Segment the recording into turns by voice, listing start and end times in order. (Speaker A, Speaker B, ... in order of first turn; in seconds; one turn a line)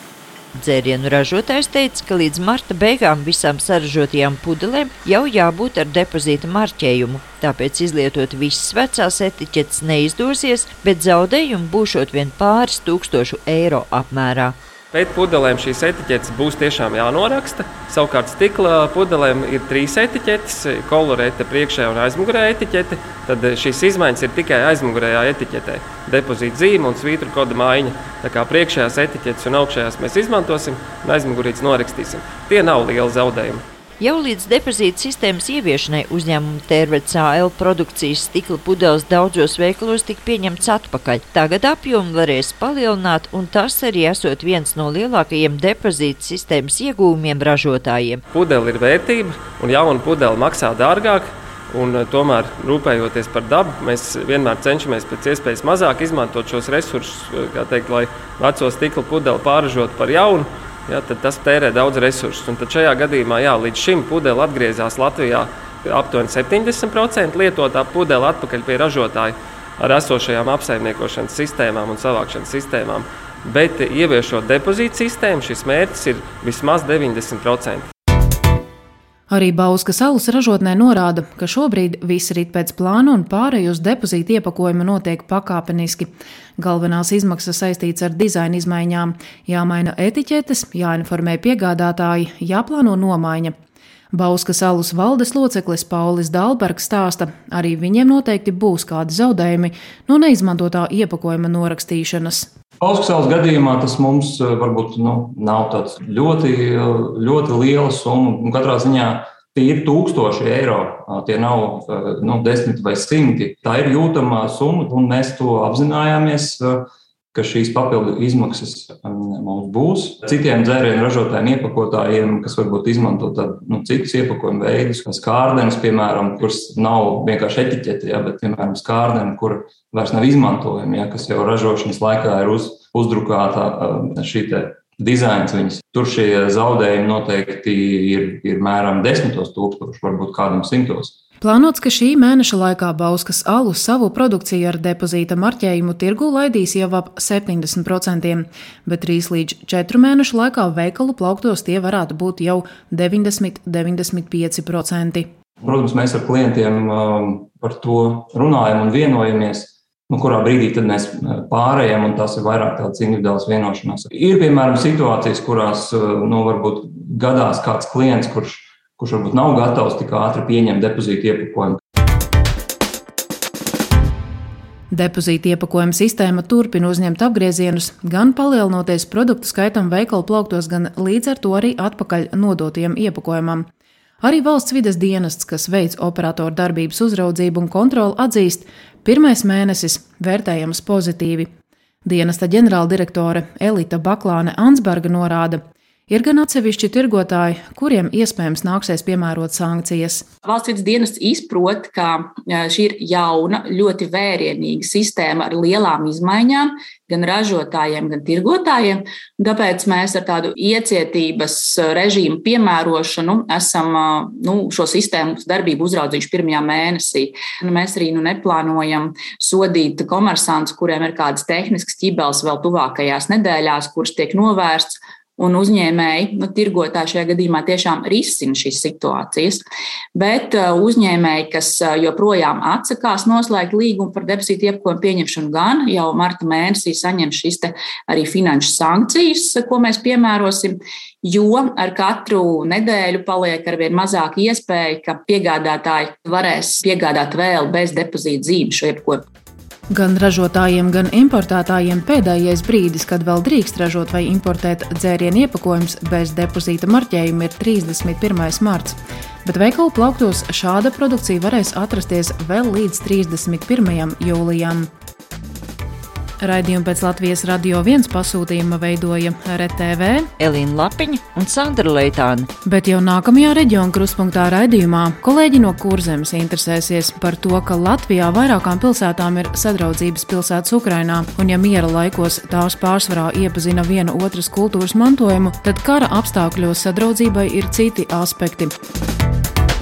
Speaker A: 0.6-14.6
Speaker B: 14.9-33.6
Speaker A: 34.0-48.2
Speaker B: 48.3-77.9
Speaker C: 79.3-93.5
Speaker C: 94.1-102.5
Speaker D: 102.8-141.1
Speaker C: 141.4-155.3
Speaker D: 155.6-171.8
Speaker C: 174.9-183.7
Speaker C: 184.2-191.5
Speaker C: 192.0-200.2
Speaker E: 200.4-229.6
Speaker E: 230.1-249.2
Speaker C: 249.9-264.9
Speaker C: 266.4-270.3
Speaker A: 270.4-272.4
Speaker C: 272.6-288.7